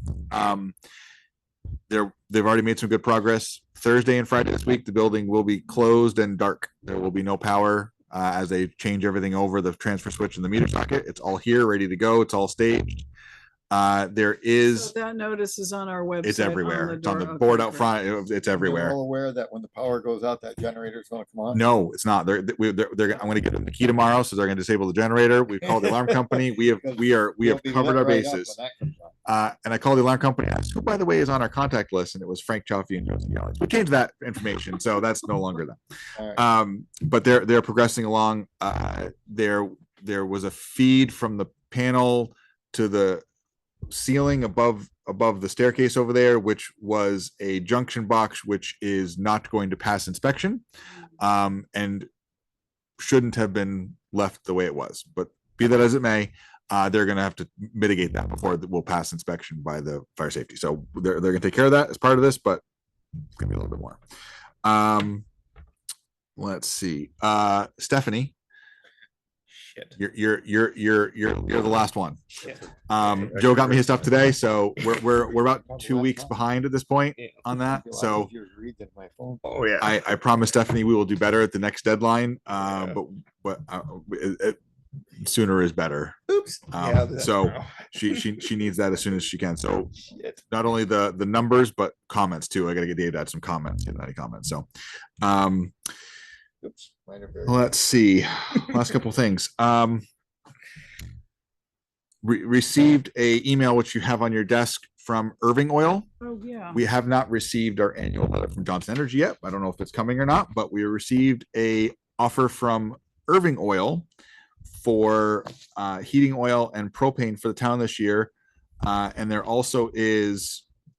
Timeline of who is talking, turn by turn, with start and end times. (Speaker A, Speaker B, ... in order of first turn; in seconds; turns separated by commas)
Speaker A: 0.3-0.8, Speaker A: 1.9-13.0, Speaker A: 13.7-14.9, Speaker B: 14.6-18.0, Speaker A: 16.2-18.9, Speaker C: 18.5-21.6, Speaker A: 21.5-28.5, Speaker C: 26.6-29.1, Speaker A: 29.2-35.8, Speaker A: 36.3-43.2, Speaker A: 43.9-50.6, Speaker A: 51.2-52.1, Speaker A: 53.0-62.6, Speaker A: 63.4-64.0, Speaker A: 64.6-65.2, Speaker A: 66.3-68.3, Speaker D: 69.5-70.0, Speaker A: 70.0-72.2, Speaker D: 72.4-74.0, Speaker A: 72.9-78.3, Speaker C: 75.5-76.3, Speaker D: 77.2-77.4, Speaker C: 77.5-79.4, Speaker D: 79.4-80.0, Speaker A: 79.8-84.6, Speaker A: 85.2-86.2, Speaker D: 86.3-88.5, Speaker A: 86.7-90.0, Speaker D: 90.0-90.4, Speaker A: 90.5-94.7, Speaker A: 95.2-95.7, Speaker C: 97.1-97.7, Speaker A: 97.5-100.0, Speaker A: 102.2-106.1, Speaker B: 106.2-106.8, Speaker A: 106.7-114.1, Speaker A: 114.7-120.7